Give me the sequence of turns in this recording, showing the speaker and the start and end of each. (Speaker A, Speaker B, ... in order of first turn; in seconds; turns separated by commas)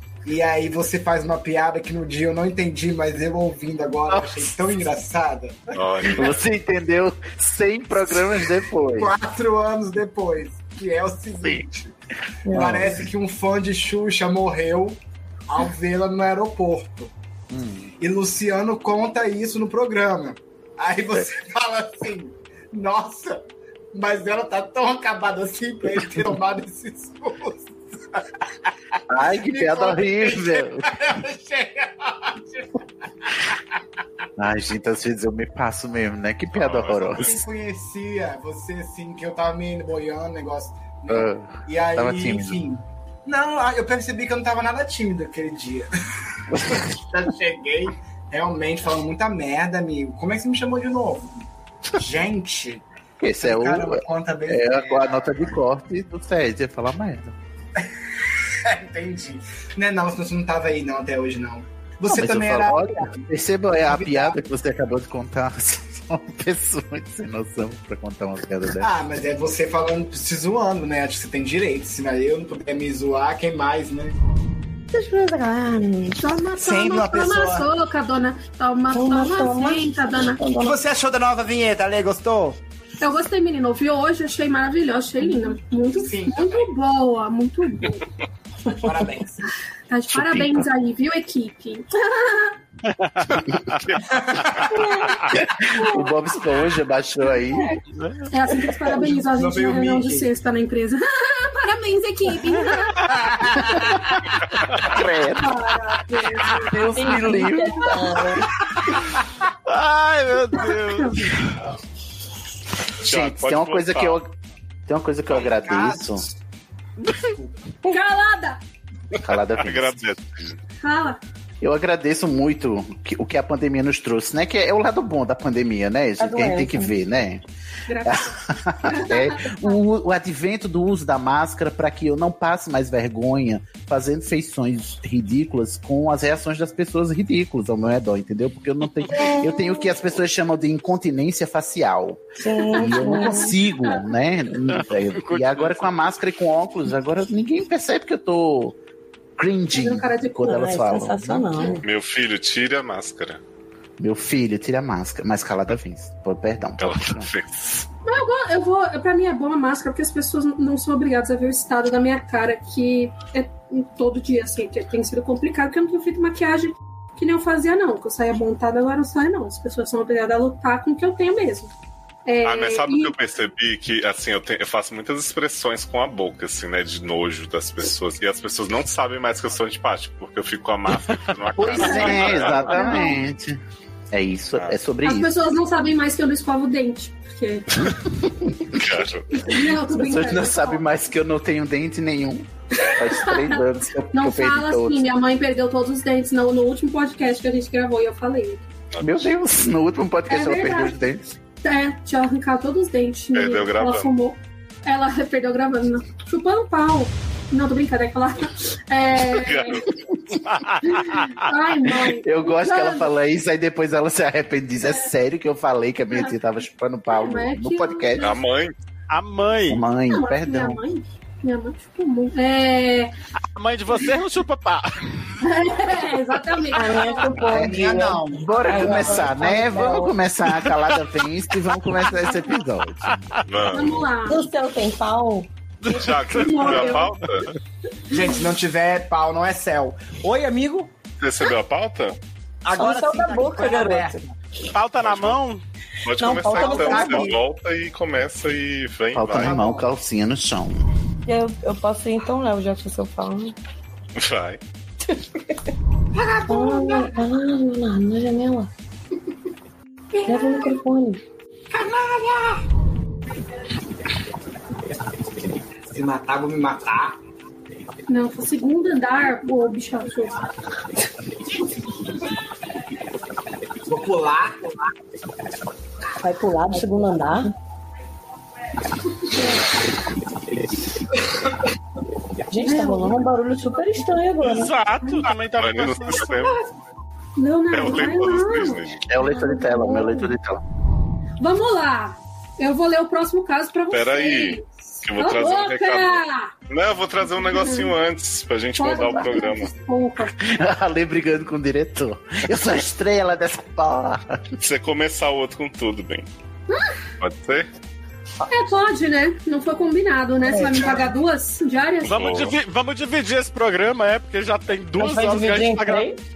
Speaker A: 0.2-6.2, Speaker B: 4.1-4.7, Speaker C: 5.7-6.5, Speaker B: 6.1-9.1, Speaker A: 8.9-11.9, Speaker D: 12.5-12.8, Speaker A: 12.5-17.1, Speaker B: 12.5-13.1, Speaker B: 17.5-17.9, Speaker A: 18.0-28.2, Speaker B: 25.9-26.3, Speaker B: 29.1-30.9, Speaker A: 29.2-33.6, Speaker B: 34.4-37.4, Speaker C: 36.5-37.4, Speaker A: 37.1-45.9, Speaker B: 41.1-42.6, Speaker B: 46.5-46.8, Speaker A: 46.8-52.8, Speaker B: 53.2-57.3, Speaker A: 53.4-55.6, Speaker A: 58.6-63.2, Speaker B: 62.1-68.9, Speaker A: 63.8-64.4, Speaker A: 68.8-74.2, Speaker D: 74.9-76.2, Speaker E: 76.2-80.4, Speaker A: 76.6-77.7, Speaker D: 78.9-80.8, Speaker A: 80.6-82.6, Speaker E: 83.0-88.1, Speaker D: 85.2-85.5, Speaker A: 85.8-86.7, Speaker A: 88.8-89.5, Speaker E: 89.9-92.5, Speaker B: 90.1-90.7, Speaker F: 92.9-93.5, Speaker A: 94.1-94.9, Speaker D: 94.8-95.1, Speaker B: 95.3-97.7, Speaker E: 95.7-96.1, Speaker F: 98.0-98.3, Speaker E: 98.3-103.0, Speaker A: 98.9-100.3, Speaker F: 102.5-103.2, Speaker A: 103.2-104.2, Speaker B: 104.8-105.6, Speaker E: 105.4-108.2, Speaker B: 106.7-108.2, Speaker D: 106.7-108.4, Speaker F: 109.7-111.6, Speaker E: 110.7-111.3, Speaker C: 113.0-114.2, Speaker B: 113.0-114.3, Speaker B: 114.9-116.3, Speaker A: 115.3-116.4, Speaker F: 117.0-117.3, Speaker A: 117.1-117.6, Speaker E: 117.8-118.6, Speaker C: 119.1-120.6, Speaker B: 119.2-120.0, Speaker E: 120.8-121.2, Speaker B: 121.6-127.4, Speaker D: 126.2-126.9, Speaker E: 127.9-129.8, Speaker B: 128.0-148.8, Speaker D: 139.2-140.0, Speaker D: 142.4-143.5, Speaker E: 142.9-143.4, Speaker F: 144.7-145.9, Speaker B: 149.4-151.8, Speaker E: 149.7-150.6, Speaker D: 150.4-151.8, Speaker C: 151.8-153.4, Speaker B: 154.0-157.3, Speaker C: 156.8-157.9, Speaker E: 158.0-171.7, Speaker E: 172.2-173.1, Speaker C: 172.4-182.7, Speaker B: 181.6-183.6, Speaker E: 181.8-183.2, Speaker B: 184.1-185.5, Speaker E: 185.0-187.8, Speaker B: 187.9-188.9, Speaker C: 188.8-189.3, Speaker E: 189.3-190.9, Speaker B: 189.8-195.1, Speaker E: 192.8-198.6, Speaker C: 198.9-199.2, Speaker B: 199.0-201.2, Speaker E: 200.3-201.0, Speaker E: 201.6-209.8, Speaker C: 203.3-204.1, Speaker C: 209.3-209.9, Speaker F: 210.4-211.5, Speaker E: 210.8-213.1, Speaker B: 212.0-218.3, Speaker E: 214.8-215.1, Speaker E: 217.1-218.4, Speaker C: 218.2-218.7, Speaker F: 219.1-219.8, Speaker B: 219.7-220.8, Speaker E: 220.1-223.1, Speaker F: 223.5-224.9, Speaker E: 225.4-227.4, Speaker D: 226.7-230.2, Speaker A: 227.4-229.4, Speaker B: 227.5-233.2, Speaker F: 230.5-230.9, Speaker E: 232.2-232.6, Speaker F: 233.1-233.4, Speaker C: 233.5-234.1, Speaker E: 233.7-234.4, Speaker D: 234.2-235.5, Speaker F: 235.8-236.9, Speaker C: 235.9-237.5, Speaker E: 236.4-237.1, Speaker A: 238.1-240.9, Speaker C: 241.2-242.2, Speaker A: 242.6-244.3, Speaker D: 242.7-244.2, Speaker F: 244.7-245.6, Speaker C: 245.0-245.4, Speaker C: 246.0-249.6, Speaker D: 246.1-247.4, Speaker A: 246.6-247.4, Speaker B: 249.1-250.8, Speaker A: 249.3-249.9, Speaker D: 251.2-253.5, Speaker C: 254.1-254.6, Speaker D: 255.0-255.7, Speaker A: 256.2-257.0, Speaker D: 256.5-258.7, Speaker E: 260.1-260.6, Speaker D: 260.2-261.2, Speaker A: 261.7-262.6, Speaker A: 265.9-267.1, Speaker E: 268.1-270.4, Speaker A: 273.9-274.9, Speaker D: 276.2-277.5, Speaker D: 282.5-284.7, Speaker E: 282.6-283.2, Speaker F: 284.4-286.4, Speaker E: 285.0-285.3, Speaker C: 285.6-286.6, Speaker E: 286.4-286.7, Speaker E: 287.4-290.3, Speaker C: 287.7-289.0, Speaker B: 289.1-290.6, Speaker E: 291.4-296.5, Speaker C: 293.9-299.7, Speaker E: 297.4-297.9, Speaker E: 298.8-300.3, Speaker B: 300.4-304.4, Speaker C: 304.6-306.3, Speaker C: 307.2-307.7, Speaker E: 308.5-312.2, Speaker D: 310.4-311.0, Speaker C: 312.0-312.6, Speaker F: 312.1-316.1, Speaker D: 315.0-316.2